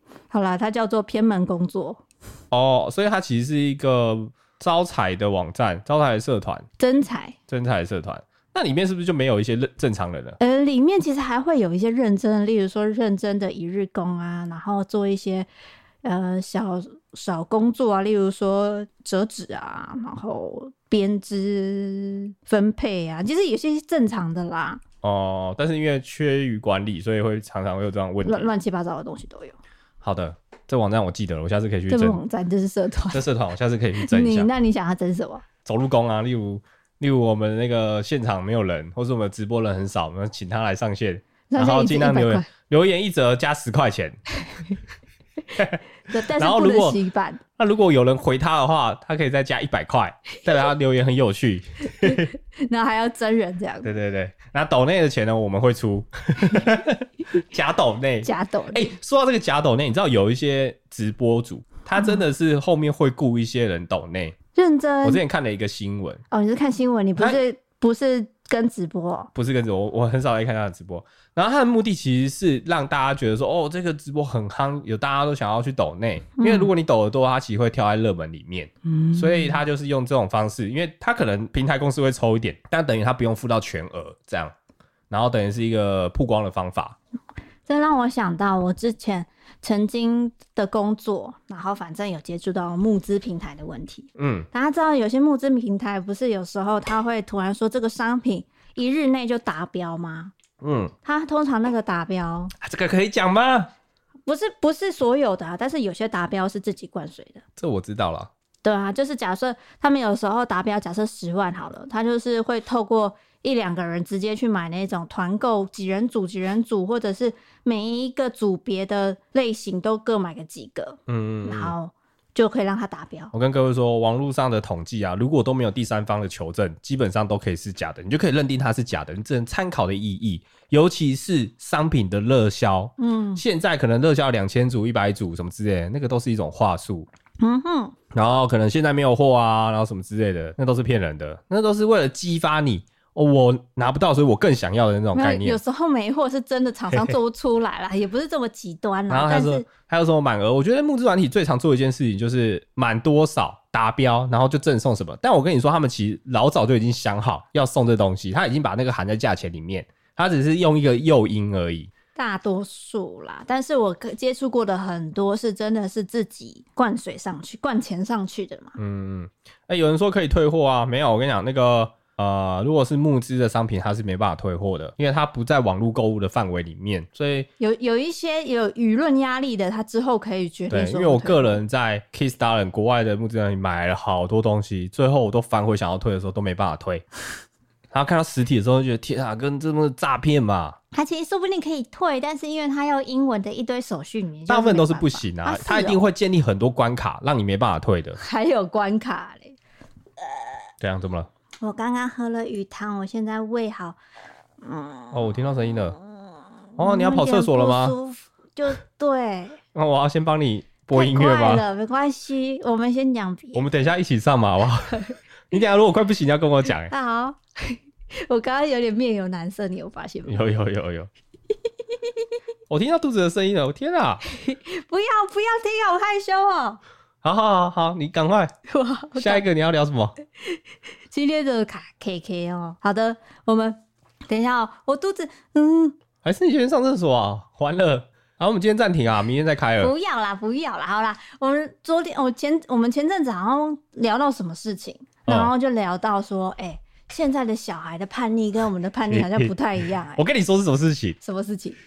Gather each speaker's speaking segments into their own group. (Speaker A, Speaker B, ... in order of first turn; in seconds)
Speaker A: 0.3-2.0, 6.8-7.3, 10.4-15.5, 16.0-24.8, 28.2-29.6, 31.9-33.2, 34.0-35.5, 41.5-42.5, 46.1-47.4, 52.0-53.9, 58.2-58.9, 64.5-65.2, 66.3-69.3, 76.4-76.7, 78.8-79.6, 87.7-100.3, 101.0-102.5, 104.3-107.4, 108.6-123.3, 133.0-133.4, 137.4-137.9, 145.1-149.7, 162.1-168.8, 177.6-181.6, 190.9-196.0, 198.2-199.6, 201.6-204.0, 204.6-209.6, 210.9-213.7, 216.9-220.4, 224.3-226.8, 228.7-229.4, 230.4-236.0, 239.8-250.2, 251.2-251.8
Speaker B: 2.5-6.7, 7.5-10.4, 25.0-28.5, 30.0-32.2, 33.1-34.5, 35.6-44.2, 45.5-45.8, 46.3-47.0, 47.6-52.3, 53.8-64.3, 65.0-66.2, 69.3-84.5, 85.1-87.0, 94.2-94.5, 100.6-100.9, 102.6-103.7, 107.6-108.3, 121.1-121.7, 123.3-137.1, 138.1-145.6, 149.1-161.9, 168.8-177.5, 180.7-187.0, 187.9-190.8, 194.5-198.2, 200.8-201.3, 205.1-206.0, 206.8-207.9, 209.7-211.6, 213.5-216.9, 220.2-221.1, 222.7-224.2, 227.2-228.5, 229.2-230.1, 236.2-239.9, 245.3-245.5, 249.1-249.5, 250.1-251.2